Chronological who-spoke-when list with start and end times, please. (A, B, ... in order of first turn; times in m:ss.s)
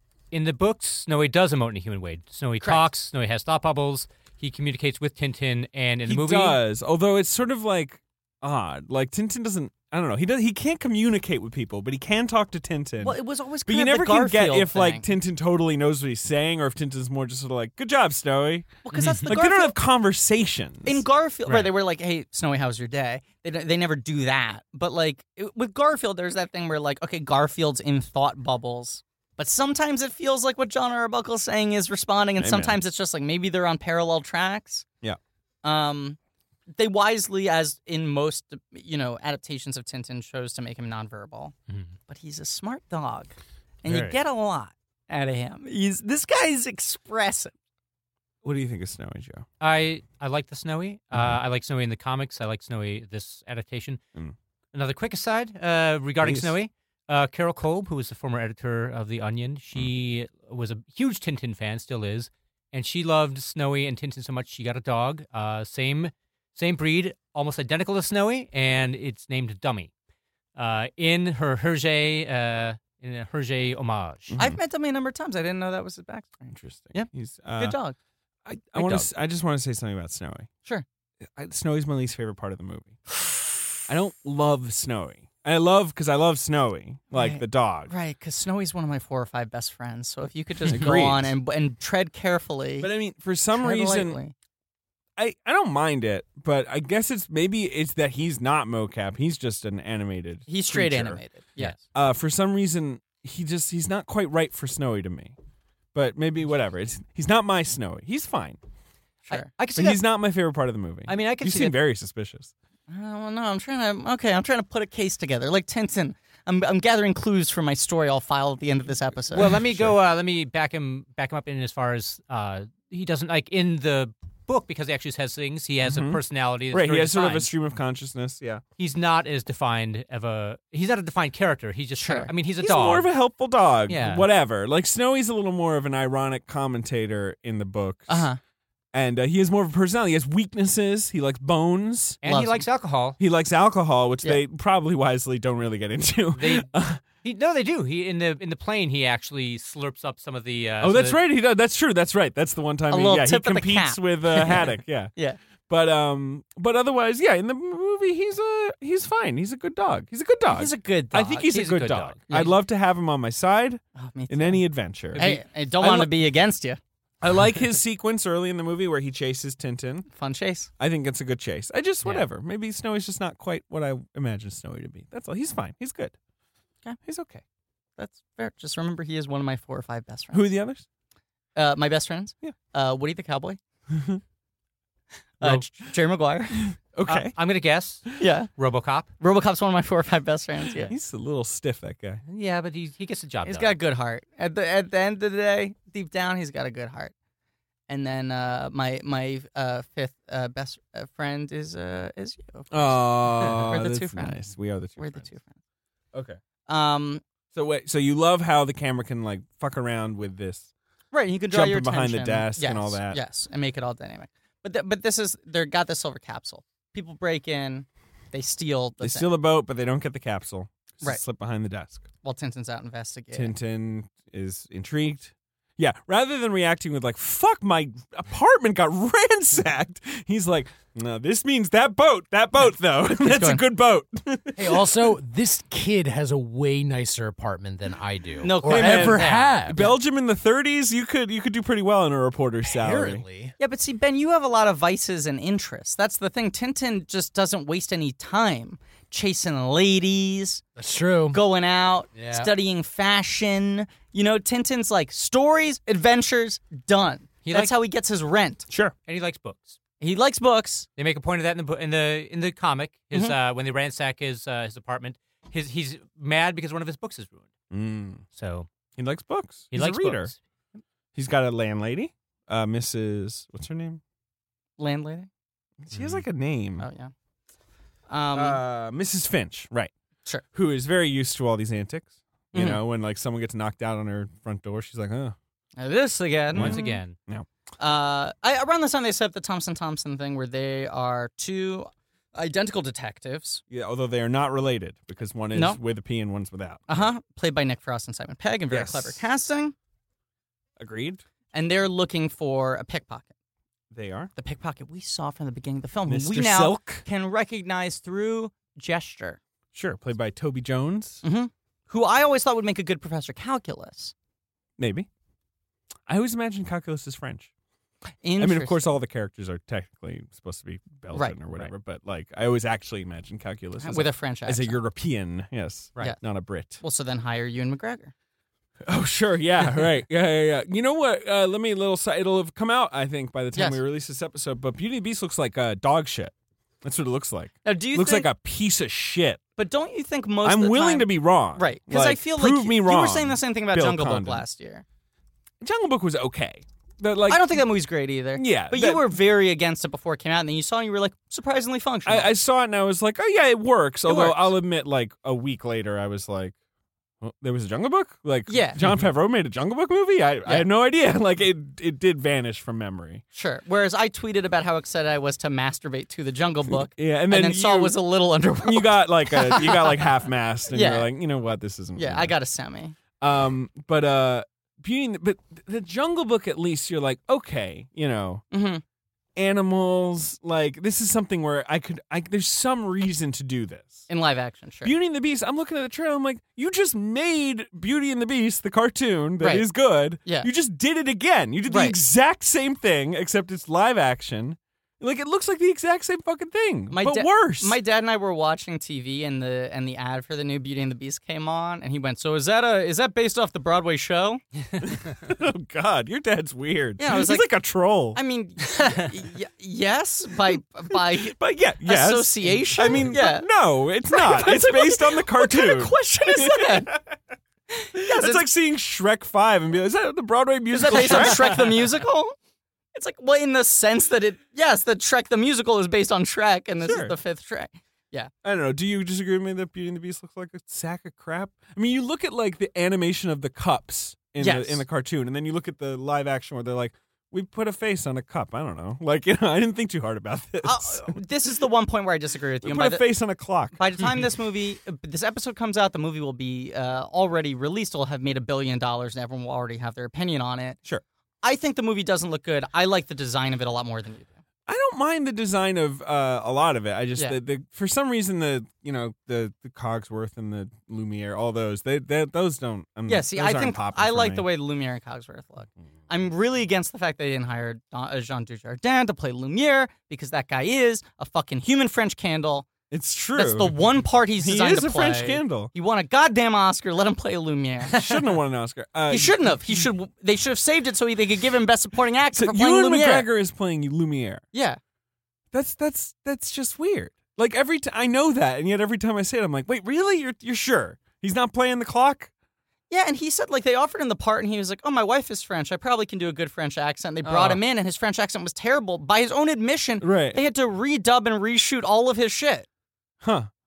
0:00.3-0:06.6 A
0:02.6-0:02.9 B
0:06.1-0:21.0 C
0:13.0-0:15.0 B
0:18.8-0:19.8 B
0:18.9-0:19.3 A
0:20.8-0:34.8 B
0:32.4-0:32.8 C
0:35.6-0:36.2 B
0:36.7-0:41.5 B
0:42.1-0:47.5 B
0:43.9-0:44.2 A
0:48.4-0:49.4 C
0:49.6-0:54.0 A
0:54.7-1:09.9 A
0:56.2-0:56.5 C
1:10.6-1:14.4 A
1:14.3-1:14.6 C
1:14.4-1:17.0 B
1:16.5-1:17.8 C
1:17.6-1:18.0 B
1:18.4-1:20.5 C
1:18.8-1:19.0 B
1:21.4-1:23.0 C
1:23.9-1:27.9 C
1:27.1-1:32.9 B
1:30.7-1:31.3 C
1:32.8-1:34.2 C
1:33.5-1:34.3 B
1:35.2-1:41.2 C
1:40.5-1:41.8 B
1:41.9-1:45.4 C
1:45.9-1:48.6 C
1:49.3-1:50.0 A
1:49.8-1:52.5 C
1:51.1-1:51.8 A
1:52.9-1:59.5 B
1:59.3-2:07.5 A
1:59.4-2:00.0 C
2:05.8-2:06.2 C
2:06.7-2:08.6 C
2:08.8-2:13.1 A
2:12.0-2:12.3 B
2:12.6-2:18.3 C
2:13.9-2:14.2 A
2:18.1-2:18.4 B
2:18.9-2:22.2 C
2:22.2-2:23.2 A
2:22.2-2:22.6 B
2:23.2-2:27.0 C
2:26.4-2:26.7 A
2:27.2-2:31.2 A
2:30.8-2:35.1 C
2:32.9-2:35.4 B
2:35.7-2:46.1 C
2:40.5-2:41.5 B
2:41.5-2:42.3 A
2:44.0-2:44.6 B
2:45.2-2:45.4 A
2:45.2-2:46.8 B
2:47.2-2:50.1 C
2:50.1-2:50.7 B
2:50.8-2:56.2 C
2:57.0-2:57.4 C
2:58.0-3:00.5 B
3:00.3-3:00.8 C
3:01.6-3:03.6 B
3:03.9-3:04.2 C
3:05.4-3:06.6 B
3:06.9-3:07.4 C
3:07.1-3:09.1 A
3:08.2-3:08.5 B
3:09.2-3:10.9 B
3:10.8-3:12.2 C
3:12.3-3:13.8 A
3:13.4-3:17.1 B
3:17.9-3:24.4 B
3:22.7-3:25.3 C
3:25.0-3:25.6 B
3:26.1-3:26.4 C
3:26.7-3:27.2 B
3:27.5-3:30.7 C
3:31.1-3:39.3 B
3:31.5-3:33.2 C
3:39.0-3:42.1 C
3:42.2-3:43.5 B
3:43.3-3:54.9 C
3:53.2-3:53.6 B
3:54.6-3:59.8 D
3:58.4-4:00.0 B
3:58.6-4:03.2 C
4:02.7-4:03.5 D
4:03.6-4:10.6 B
4:10.8-4:11.4 D
4:11.3-4:18.7 B
4:12.2-4:12.5 D
4:17.4-4:17.7 A
4:19.1-4:19.8 A
4:20.0-4:20.9 B
4:21.0-4:27.5 A
4:27.7-4:28.2 C
4:28.4-4:28.7 A
4:29.0-4:30.3 C
4:29.7-4:30.4 A
4:31.2-4:34.0 C
4:34.8-4:35.3 B
4:35.8-4:36.9 C
4:35.9-4:36.2 A
4:36.8-4:37.1 B
4:38.1-4:38.6 B
4:38.3-4:39.9 C
4:40.5-4:45.4 C
4:42.5-4:42.8 B
4:45.8-4:47.0 B
4:46.5-4:47.5 C
4:46.6-4:47.2 A
4:47.8-4:53.6 B
4:53.7-4:57.1 C
4:55.5-4:55.8 B
4:56.9-4:59.8 B
4:58.7-4:59.2 C
5:00.8-5:01.2 C
5:01.5-5:03.3 B
5:03.9-5:04.3 C
5:04.4-5:09.4 B
5:06.1-5:07.0 C
5:09.7-5:11.2 C
5:11.2-5:14.1 B
5:14.8-5:15.1 C
5:16.1-5:17.5 C
5:18.2-5:18.9 B
5:18.4-5:26.8 C
5:21.1-5:21.4 B
5:23.8-5:24.8 B
5:26.8-5:28.1 B
5:28.8-5:39.4 C
5:33.5-5:33.8 B
5:37.6-5:38.3 B
5:39.6-5:44.8 B
5:40.4-5:44.4 C
5:45.6-5:47.6 C
5:47.3-5:52.3 B
5:48.4-5:49.1 C
5:52.1-5:56.6 C
5:54.1-5:54.5 B
5:57.2-6:03.2 C
5:58.5-5:58.8 B
6:03.3-6:10.0 B
6:06.7-6:08.0 C
6:08.6-6:12.3 C
6:10.7-6:11.1 B
6:12.0-6:13.0 B
6:13.2-6:18.4 C
6:18.5-6:18.8 B
6:19.4-6:24.1 C
6:24.1-6:24.9 B
6:24.8-6:37.8 C
6:29.4-6:29.7 B
6:31.7-6:32.0 B
6:36.9-6:44.4 B
6:44.8-6:48.2 C
6:47.0-6:47.5 B
6:48.2-6:53.5 B
6:50.9-6:57.2 C
6:54.1-6:57.0 B
6:57.7-6:58.5 B
6:58.0-7:01.8 C
7:00.7-7:02.3 B
7:02.9-7:08.3 B
7:06.8-7:07.2 C
7:08.4-7:21.2 C
7:14.4-7:14.8 B
7:20.6-7:23.1 B
7:22.6-7:23.8 C
7:23.7-7:30.8 B
7:31.4-7:34.3 B
7:34.7-7:44.5 C
7:43.1-7:52.7 B
7:52.9-7:53.8 C
7:53.4-7:58.0 B
7:54.4-7:55.7 C
7:57.9-7:59.8 C
7:59.1-8:03.3 B
8:02.3-8:04.4 C
8:04.5-8:04.8 B
8:05.5-8:12.3 C
8:12.9-8:22.7 B
8:17.2-8:17.6 C
8:20.0-8:20.4 C
8:23.2-8:23.5 C